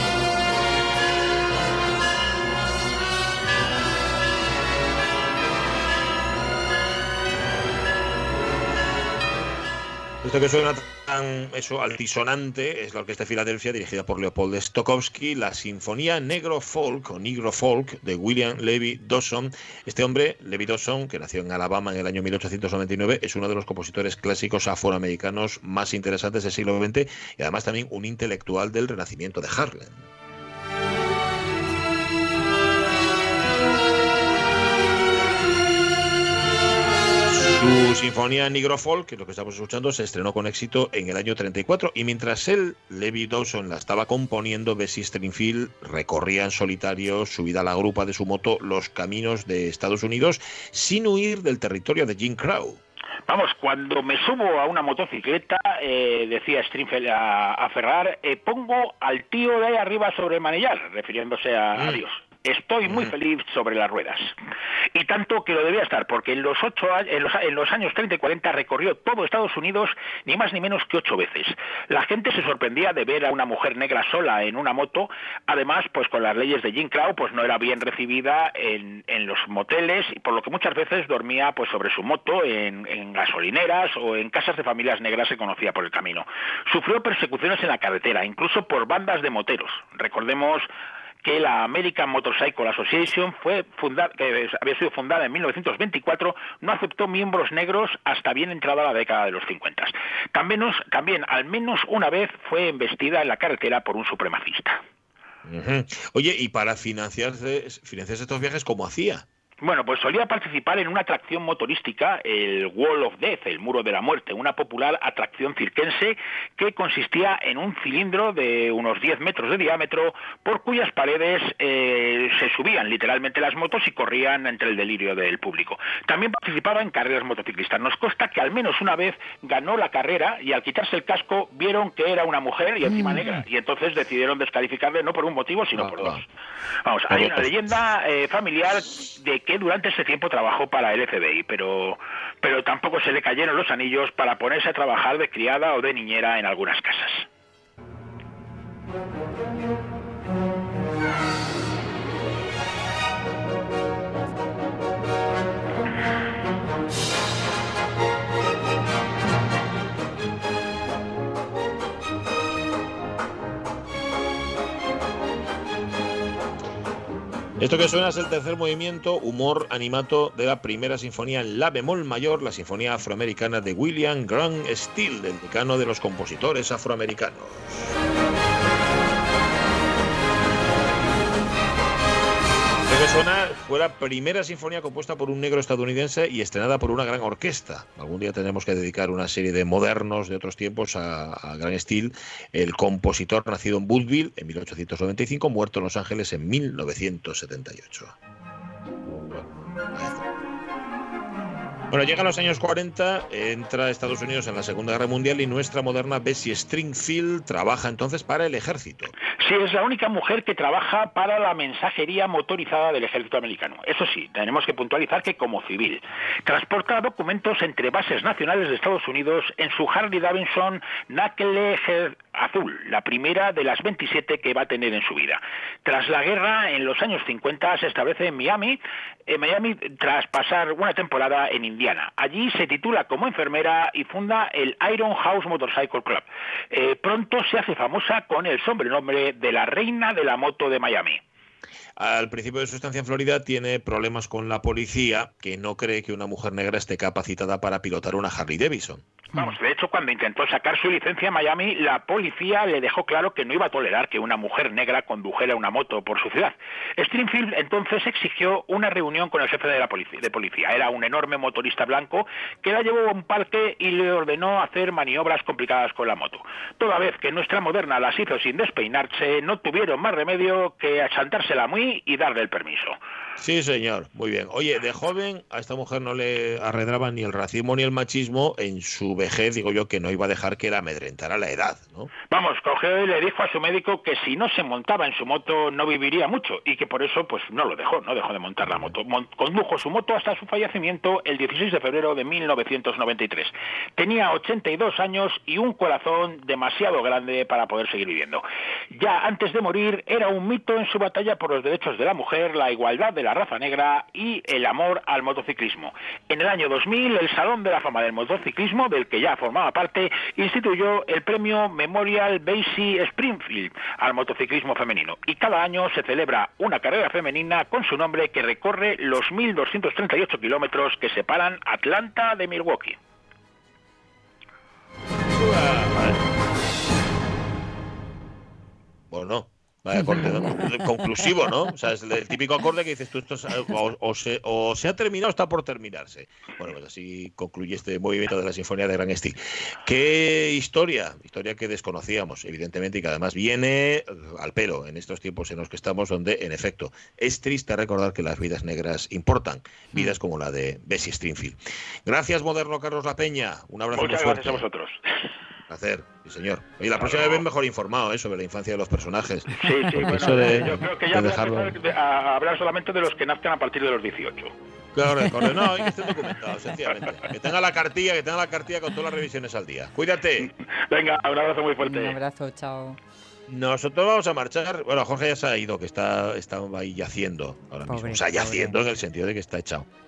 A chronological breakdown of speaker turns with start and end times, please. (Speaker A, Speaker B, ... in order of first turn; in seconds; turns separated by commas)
Speaker A: 10.2-30.0, Speaker A: 37.3-52.8, Speaker B: 53.3-64.3, Speaker A: 61.8-62.0, Speaker A: 62.9-63.1, Speaker B: 64.9-90.7, Speaker B: 91.2-104.8, Speaker A: 105.5-109.2, Speaker B: 109.6-136.2, Speaker A: 135.7-136.2, Speaker B: 136.9-147.3, Speaker A: 137.1-137.6, Speaker A: 167.6-177.9, Speaker A: 182.9-198.2, Speaker A: 199.1-200.2, Speaker A: 201.9-209.1, Speaker B: 209.4-241.2, Speaker A: 242.0-249.1, Speaker B: 249.3-273.0, Speaker A: 273.4-282.1, Speaker B: 282.3-323.0, Speaker A: 288.6-288.9, Speaker A: 325.3-326.2, Speaker A: 329.1-354.6, Speaker C: 330.0-330.6, Speaker B: 353.9-355.0, Speaker A: 355.7-361.8, Speaker B: 356.9-357.4, Speaker B: 359.6-364.5, Speaker A: 364.9-370.5, Speaker B: 370.4-372.2, Speaker C: 371.8-373.0, Speaker A: 373.5-379.9, Speaker C: 377.9-378.8